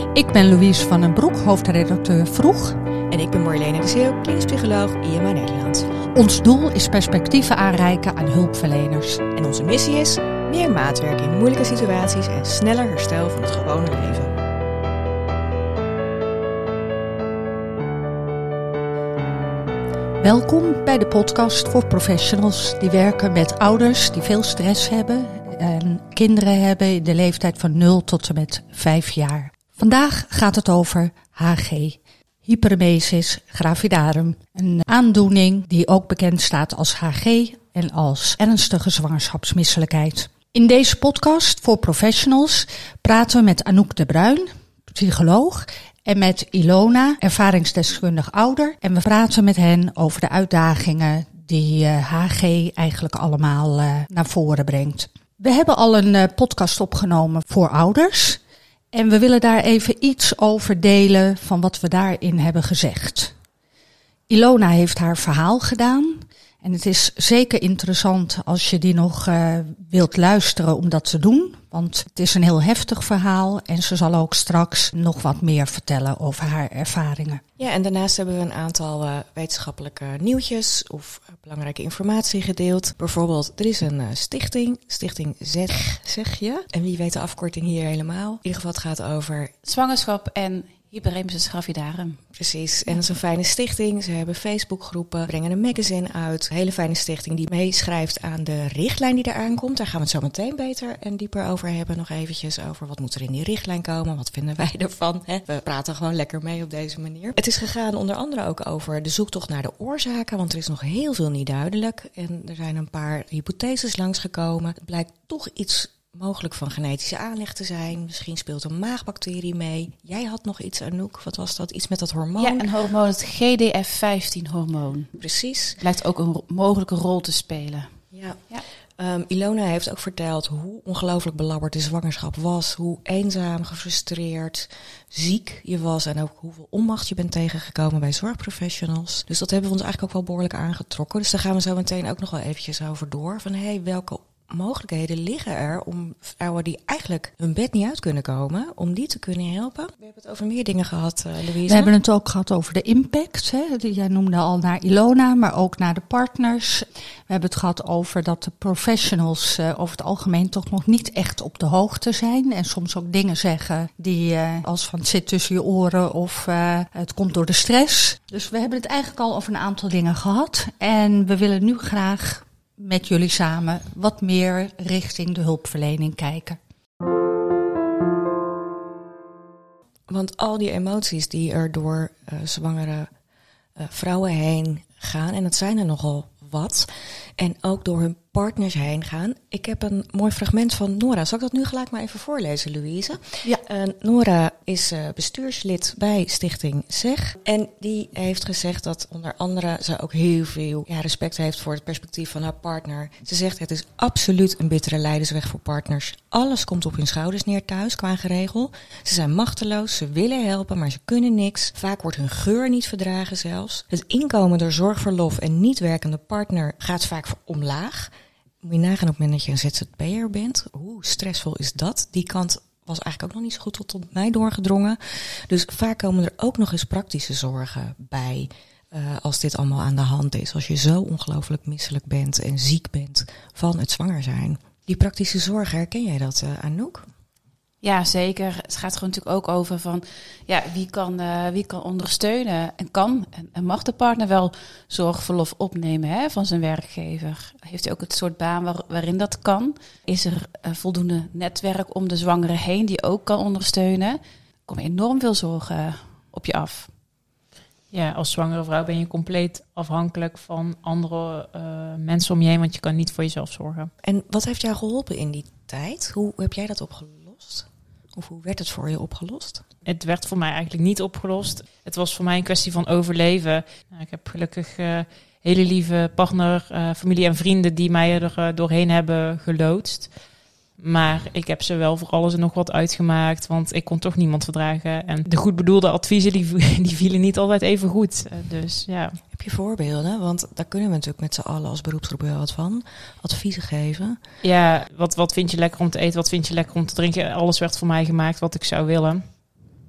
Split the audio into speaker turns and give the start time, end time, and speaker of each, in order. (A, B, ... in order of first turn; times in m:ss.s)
0:00.1-0:02.8 A
0:03.1-0:06.0 B
0:06.1-0:09.2 A
0:09.3-0:14.3 B
0:20.2-0:58.4 A
0:58.9-1:03.3 A
1:04.3-1:17.4 A
1:17.6-1:29.5 B
1:29.6-1:32.2 C
1:32.3-2:02.7 B
2:02.4-2:05.1 C
2:05.2-2:05.8 B
2:05.8-2:07.9 C
2:08.1-2:08.4 B
2:09.0-2:31.9 B
2:31.7-2:56.6 A
3:00.1-3:03.1 B
3:03.8-3:38.1 B
3:38.6-3:57.1 B
3:57.8-4:16.9 C
4:17.9-4:23.9 D
4:24.0-4:29.6 B
4:29.9-4:40.1 D
4:40.8-4:49.2 D
4:49.3-4:54.2 B
4:54.4-4:59.4 D